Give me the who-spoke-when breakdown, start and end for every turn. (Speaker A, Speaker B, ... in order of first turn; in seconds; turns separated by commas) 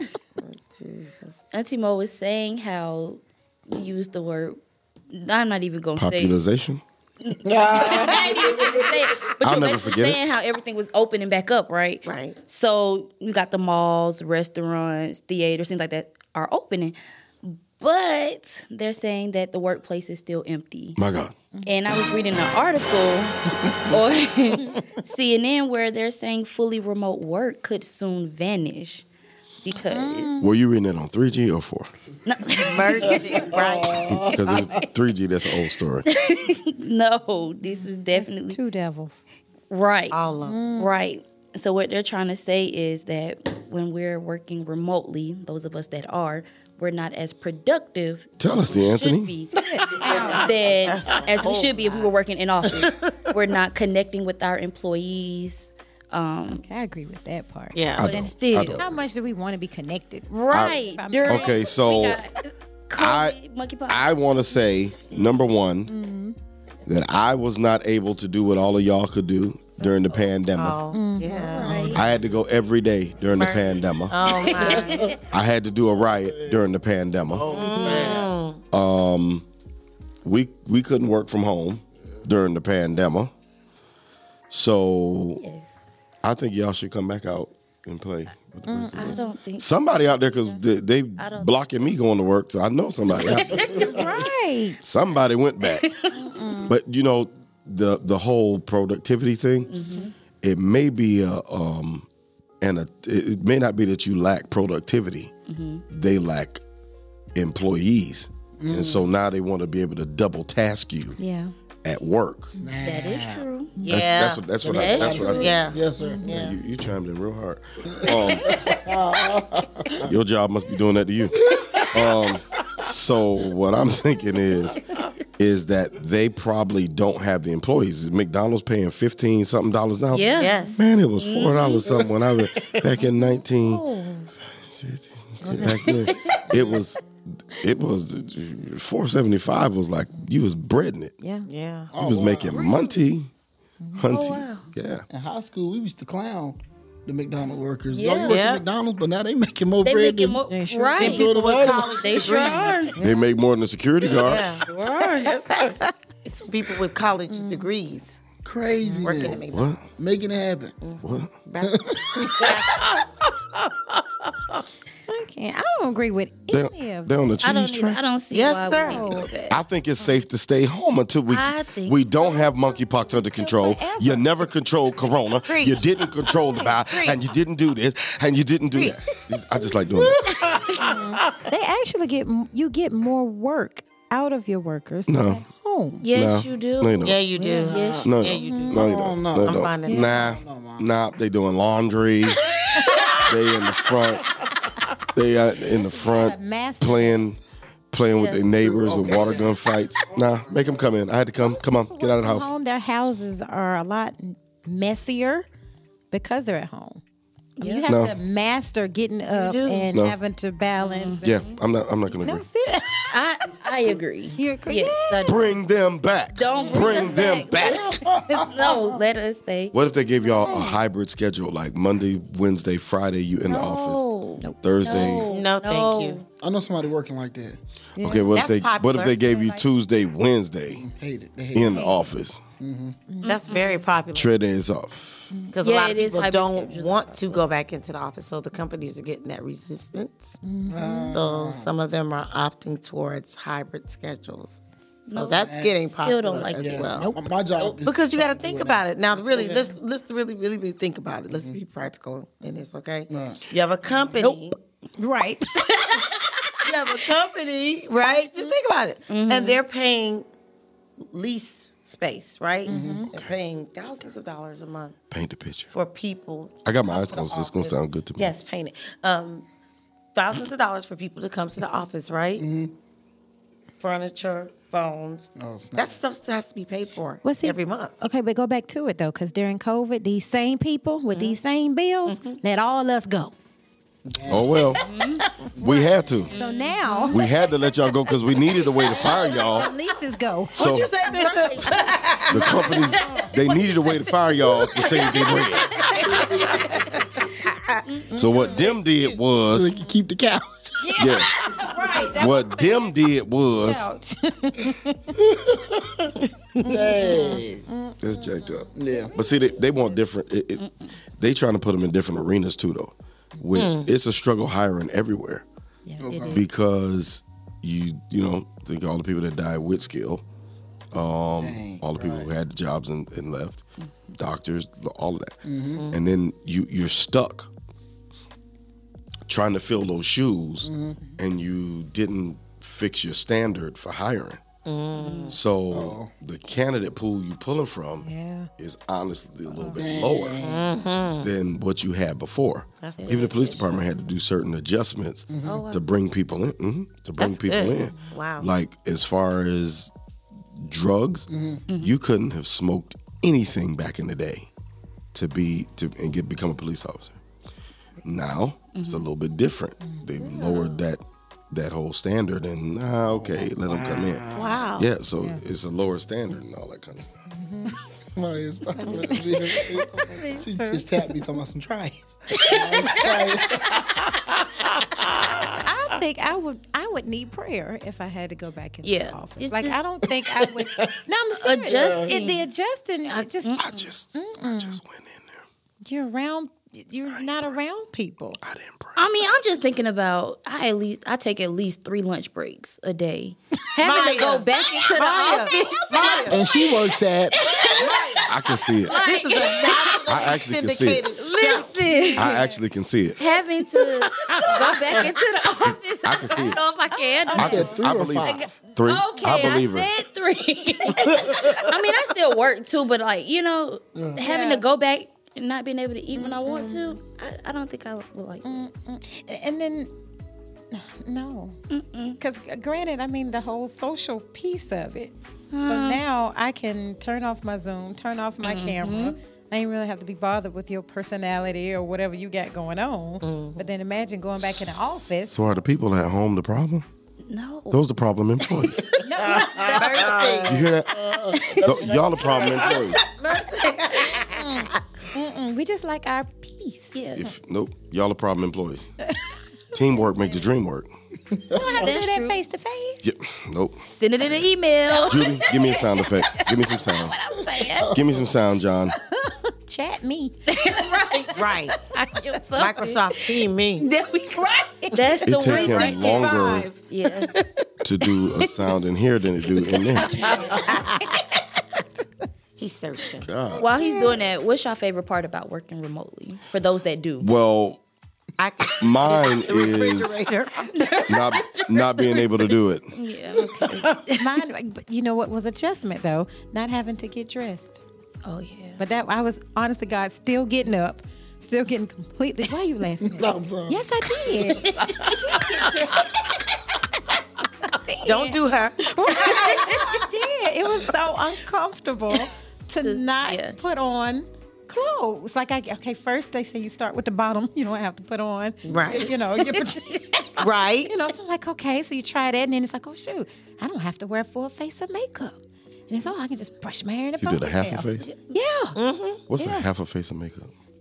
Speaker A: 0.4-1.4, Speaker B: 1.5-4.6, Speaker B: 5.1-6.4, Speaker C: 6.0-6.8, Speaker B: 7.2-21.0, Speaker D: 7.4-8.8, Speaker A: 7.8-8.2, Speaker C: 9.4-10.2, Speaker A: 12.1-12.4, Speaker C: 21.0-21.3, Speaker B: 21.6-29.0, Speaker B: 29.6-30.4, Speaker E: 29.8-30.5, Speaker C: 30.4-31.9, Speaker B: 32.2-33.4, Speaker A: 32.5-34.4, Speaker D: 33.4-34.7, Speaker C: 34.1-36.1, Speaker B: 34.3-34.8, Speaker B: 36.0-38.6, Speaker E: 37.6-39.2, Speaker B: 39.7-40.2, Speaker A: 40.1-40.6, Speaker E: 40.4-40.9, Speaker B: 40.8-56.6, Speaker C: 48.4-49.3, Speaker E: 49.6-50.4, Speaker A: 50.0-52.1, Speaker E: 56.5-61.6, Speaker A: 57.7-58.2, Speaker C: 58.0-58.9, Speaker B: 58.0-58.9, Speaker B: 60.3-64.1, Speaker C: 61.2-62.2, Speaker C: 63.0-65.9, Speaker E: 65.9-66.4, Speaker C: 66.8-70.8, Speaker A: 69.8-71.9, Speaker E: 70.9-72.0, Speaker B: 71.5-72.0, Speaker D: 71.6-72.2, Speaker C: 71.9-77.6, Speaker A: 73.3-75.2, Speaker B: 74.8-75.2, Speaker D: 77.4-78.3, Speaker A: 77.5-78.6, Speaker E: 77.5-78.2, Speaker C: 78.7-79.5, Speaker C: 80.2-83.3, Speaker C: 84.5-85.4, Speaker B: 85.4-85.7, Speaker C: 86.2-94.0, Speaker E: 88.7-89.2, Speaker B: 89.0-89.7, Speaker B: 91.2-91.5, Speaker B: 93.3-94.2, Speaker E: 93.7-94.8, Speaker C: 94.8-95.9, Speaker B: 95.6-96.1, Speaker E: 96.1-96.8, Speaker C: 96.6-99.7, Speaker B: 99.7-100.1, Speaker C: 100.4-102.0, Speaker C: 102.6-105.3, Speaker B: 105.5-105.8, Speaker C: 105.9-106.6, Speaker C: 107.3-111.2, Speaker D: 108.6-109.0, Speaker E: 111.2-111.5, Speaker C: 111.8-112.6, Speaker D: 112.6-113.5, Speaker B: 112.8-113.8, Speaker A: 113.8-114.4, Speaker C: 113.8-115.6, Speaker D: 114.6-116.4, Speaker B: 114.7-115.6, Speaker A: 115.2-116.5, Speaker E: 116.0-116.3, Speaker C: 116.2-118.8, Speaker D: 117.9-120.1, Speaker C: 120.0-133.8, Speaker D: 121.5-122.1, Speaker B: 130.1-131.9, Speaker A: 130.4-130.8, Speaker B: 133.6-134.3, Speaker C: 134.4-141.1, Speaker A: 135.4-135.9, Speaker B: 135.9-136.4, Speaker E: 141.2-141.5, Speaker A: 141.5-141.9, Speaker D: 141.9-142.7, Speaker C: 141.9-143.3, Speaker E: 143.8-144.1, Speaker C: 143.9-145.0, Speaker B: 144.1-144.7, Speaker D: 145.1-150.4, Speaker B: 147.9-148.4, Speaker A: 148.3-148.6, Speaker B: 149.8-151.3, Speaker E: 150.5-151.2, Speaker A: 151.0-152.9, Speaker D: 151.0-152.0, Speaker B: 151.9-153.0, Speaker E: 152.9-153.2, Speaker C: 153.0-154.6, Speaker A: 154.1-158.2, Speaker E: 157.3-157.7, Speaker D: 158.4-160.8, Speaker E: 158.8-159.2, Speaker A: 159.0-159.8, Speaker C: 159.4-159.8, Speaker A: 160.8-163.0, Speaker C: 161.0-161.3, Speaker D: 161.6-162.8, Speaker E: 165.1-167.3, Speaker C: 166.5-168.0, Speaker B: 167.4-169.6, Speaker A: 168.3-169.2, Speaker E: 168.8-169.3, Speaker C: 169.5-180.6, Speaker B: 171.3-172.6, Speaker E: 173.3-174.4, Speaker A: 175.4-175.9, Speaker A: 176.9-177.2, Speaker E: 180.8-186.0, Speaker C: 185.1-185.4, Speaker B: 186.0-188.1, Speaker C: 186.1-187.2, Speaker A: 187.0-190.2, Speaker E: 187.4-187.7, Speaker D: 187.4-188.1, Speaker C: 188.0-192.5, Speaker E: 188.4-188.7, Speaker D: 188.7-190.9, Speaker E: 189.9-190.2, Speaker C: 193.2-194.3, Speaker C: 195.1-197.4, Speaker E: 195.6-197.2, Speaker C: 197.9-202.5, Speaker B: 198.1-198.5, Speaker D: 198.5-199.6, Speaker E: 201.4-205.5, Speaker E: 206.1-207.0, Speaker B: 207.6-208.0, Speaker E: 207.6-211.3, Speaker C: 207.9-208.1, Speaker B: 209.3-209.9, Speaker B: 210.8-211.6, Speaker C: 211.2-212.4, Speaker E: 212.2-213.2, Speaker B: 213.1-215.6, Speaker E: 214.3-215.4, Speaker C: 215.2-218.0, Speaker B: 216.3-220.8, Speaker E: 216.6-216.9, Speaker D: 217.6-218.9, Speaker C: 219.7-225.3, Speaker E: 220.4-220.8, Speaker B: 223.5-226.2, Speaker A: 224.9-226.2, Speaker D: 226.4-227.6, Speaker E: 228.0-228.4, Speaker C: 228.0-230.8, Speaker A: 228.3-229.4, Speaker D: 230.7-231.8, Speaker C: 231.5-232.4, Speaker E: 231.6-232.0, Speaker D: 232.6-233.0, Speaker E: 233.1-233.4, Speaker B: 233.2-233.8, Speaker A: 233.2-234.3, Speaker C: 234.1-235.3, Speaker A: 235.5-240.4, Speaker B: 235.6-237.4, Speaker E: 240.4-241.2, Speaker D: 240.7-241.7, Speaker A: 241.1-247.1, Speaker B: 245.1-246.9, Speaker D: 245.2-245.8, Speaker D: 246.5-249.8, Speaker A: 247.8-254.6, Speaker D: 251.3-251.6, Speaker D: 253.1-253.4, Speaker B: 254.2-254.6, Speaker E: 255.0-256.1, Speaker B: 255.6-256.2, Speaker A: 256.6-260.3, Speaker B: 259.1-259.6, Speaker A: 261.0-265.0, Speaker E: 262.7-263.1, Speaker D: 262.7-263.0, Speaker C: 265.1-265.7, Speaker A: 265.7-269.4, Speaker C: 266.6-268.4, Speaker A: 270.1-272.4, Speaker D: 272.4-272.7, Speaker A: 273.8-277.9, Speaker D: 275.4-276.0, Speaker E: 277.2-283.3, Speaker A: 282.1-282.4, Speaker D: 284.1-284.7, Speaker C: 284.3-284.8, Speaker B: 284.8-285.2, Speaker C: 285.6-286.3, Speaker B: 286.3-287.3, Speaker E: 286.3-287.2, Speaker C: 287.1-289.7, Speaker E: 288.9-290.6, Speaker B: 289.0-289.6, Speaker C: 290.5-290.9, Speaker A: 290.5-293.3, Speaker B: 291.0-293.7, Speaker C: 292.3-295.8, Speaker A: 294.8-295.5, Speaker E: 295.6-297.0, Speaker A: 296.0-296.5, Speaker B: 296.1-297.2, Speaker A: 297.4-297.8, Speaker B: 297.9-298.5, Speaker E: 298.1-298.5, Speaker C: 298.1-299.8, Speaker A: 298.4-299.2, Speaker D: 299.3-301.0, Speaker E: 300.8-305.2, Speaker C: 301.0-301.4, Speaker C: 302.1-303.9, Speaker D: 305.3-306.1, Speaker D: 306.6-307.6, Speaker E: 306.6-309.1, Speaker C: 308.0-315.4, Speaker D: 308.7-309.1, Speaker B: 310.6-310.9, Speaker A: 313.5-313.9, Speaker E: 315.9-316.1, Speaker D: 316.0-316.4, Speaker B: 316.1-316.4, Speaker C: 316.3-320.2, Speaker C: 320.9-327.5, Speaker D: 321.4-322.3, Speaker D: 325.4-325.8, Speaker C: 329.3-334.4, Speaker D: 330.6-331.0, Speaker A: 334.6-335.4, Speaker B: 334.9-335.4, Speaker C: 335.3-338.1, Speaker D: 335.7-336.1, Speaker E: 338.0-338.5, Speaker C: 338.6-340.4, Speaker E: 339.5-339.8, Speaker D: 339.7-340.6, Speaker A: 340.4-341.3, Speaker C: 341.2-349.9, Speaker A: 342.8-343.8, Speaker B: 343.0-343.3, Speaker D: 345.3-345.6, Speaker B: 345.4-345.8, Speaker A: 347.2-348.5, Speaker C: 350.6-354.5, Speaker D: 351.3-351.6, Speaker C: 355.1-357.2, Speaker C: 358.0-367.2, Speaker B: 358.7-359.1, Speaker E: 359.8-360.7, Speaker D: 363.1-364.6, Speaker A: 364.3-364.9, Speaker E: 367.3-367.8, Speaker D: 368.1-374.2, Speaker A: 368.8-369.5, Speaker E: 368.9-371.1, Speaker B: 372.5-373.6, Speaker D: 375.0-375.6, Speaker E: 375.6-383.6, Speaker B: 378.8-379.8, Speaker D: 380.3-380.9, Speaker B: 381.4-382.4, Speaker D: 381.7-382.1, Speaker B: 383.4-383.9, Speaker C: 383.6-385.4, Speaker E: 384.1-384.8, Speaker E: 385.8-388.4, Speaker C: 388.4-389.0, Speaker B: 388.9-396.8, Speaker A: 393.8-396.4, Speaker D: 396.3-397.4, Speaker B: 397.3-400.0, Speaker A: 397.8-398.3, Speaker C: 398.2-399.0, Speaker A: 398.9-401.7, Speaker C: 400.1-401.1, Speaker B: 401.2-402.6, Speaker C: 402.1-403.2, Speaker B: 403.2-418.6, Speaker D: 404.3-404.8, Speaker C: 406.0-406.6, Speaker E: 407.2-407.8, Speaker D: 407.3-408.4, Speaker C: 407.3-409.9, Speaker D: 413.9-414.2, Speaker E: 414.2-414.6, Speaker E: 416.2-416.8, Speaker E: 418.4-419.9, Speaker E: 420.7-421.6, Speaker B: 421.7-422.2, Speaker E: 422.2-435.4, Speaker B: 425.5-426.0, Speaker B: 428.4-429.1, Speaker A: 433.2-433.6, Speaker C: 435.1-436.9, Speaker B: 437.3-437.8, Speaker C: 437.7-439.0, Speaker E: 439.0-440.1, Speaker D: 439.2-442.8, Speaker A: 439.6-440.7, Speaker C: 440.4-443.0, Speaker B: 441.3-441.6, Speaker A: 442.2-444.7, Speaker E: 444.0-447.0, Speaker B: 446.9-447.3, Speaker C: 447.1-448.9, Speaker C: 449.7-450.9, Speaker D: 451.3-451.6, Speaker E: 451.5-453.0, Speaker B: 451.6-452.4, Speaker C: 453.0-453.8, Speaker B: 453.8-456.6, Speaker C: 455.1-457.1, Speaker E: 455.1-455.5, Speaker E: 457.1-457.9, Speaker B: 457.3-457.8, Speaker D: 457.8-458.2, Speaker C: 457.9-458.9, Speaker E: 459.1-460.9, Speaker B: 460.5-467.3, Speaker A: 461.3-461.8, Speaker A: 462.6-463.9, Speaker E: 464.3-466.8, Speaker C: 465.2-466.7, Speaker C: 467.8-470.2, Speaker B: 469.9-470.6, Speaker E: 469.9-471.2, Speaker A: 470.6-471.0, Speaker A: 472.6-473.3, Speaker C: 473.2-473.7, Speaker B: 473.5-477.3, Speaker E: 473.8-474.1, Speaker C: 477.2-477.8, Speaker A: 478.4-480.7, Speaker C: 478.8-480.3, Speaker B: 480.6-484.1, Speaker C: 481.1-482.9, Speaker E: 483.8-487.8, Speaker B: 488.2-488.8, Speaker E: 488.8-496.0, Speaker D: 493.0-495.8, Speaker B: 494.5-496.0, Speaker B: 497.9-498.4, Speaker A: 498.0-498.8, Speaker E: 498.8-518.8, Speaker B: 499.1-500.0, Speaker B: 502.8-503.6, Speaker A: 508.6-509.1, Speaker B: 509.5-510.2, Speaker A: 510.4-510.9, Speaker C: 517.1-518.1, Speaker A: 518.8-519.2, Speaker C: 519.3-520.5, Speaker E: 519.4-519.7